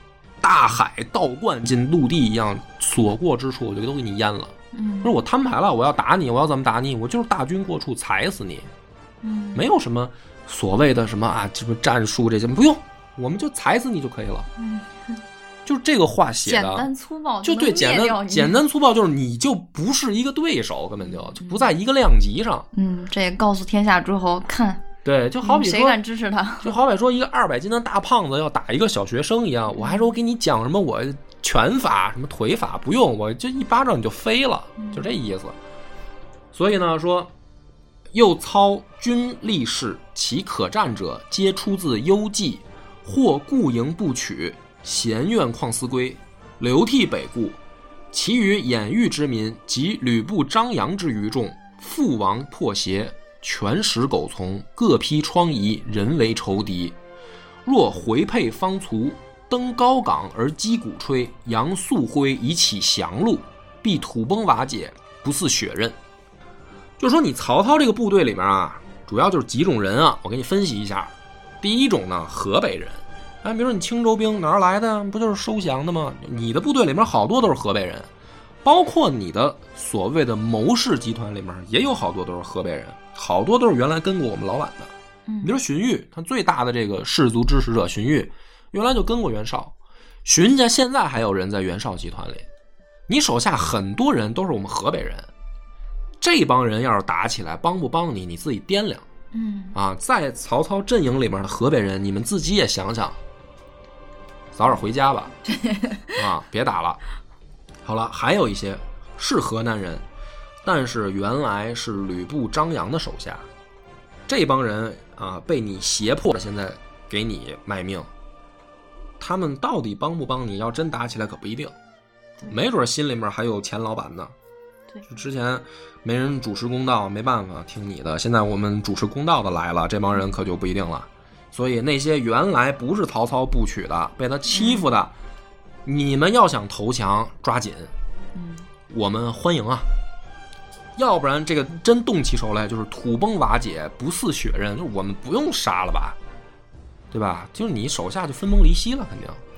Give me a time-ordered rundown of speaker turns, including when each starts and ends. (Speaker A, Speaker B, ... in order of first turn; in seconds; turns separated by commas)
Speaker A: 0.4-8.7, Speaker B: 4.7-5.2, Speaker B: 9.2-9.7, Speaker A: 9.6-14.5, Speaker B: 14.6-15.2, Speaker A: 15.7-16.9, Speaker B: 16.4-18.6, Speaker A: 17.4-22.7, Speaker B: 21.1-21.7, Speaker B: 22.7-24.9, Speaker A: 25.1-26.0, Speaker B: 25.4-26.8, Speaker A: 26.6-35.6, Speaker B: 29.7-30.1, Speaker B: 34.8-35.1, Speaker A: 36.5-37.3, Speaker A: 38.1-47.6, Speaker A: 48.1-57.0, Speaker A: 57.6-66.0, Speaker A: 67.0-78.1, Speaker A: 78.6-92.5, Speaker B: 85.3-85.6, Speaker A: 93.1-95.3, Speaker A: 96.2-99.1, Speaker B: 99.3-99.8, Speaker A: 99.8-103.2, Speaker A: 104.5-105.3, Speaker B: 105.5-106.2, Speaker A: 106.2-107.0, Speaker A: 107.8-110.0, Speaker A: 110.6-113.5, Speaker A: 114.3-118.1, Speaker A: 119.2-121.8, Speaker A: 122.4-124.3, Speaker A: 125.1-135.1, Speaker B: 134.5-134.9, Speaker A: 135.8-137.9, Speaker B: 138.3-138.7, Speaker A: 138.9-139.9, Speaker A: 141.0-146.2, Speaker A: 147.1-149.4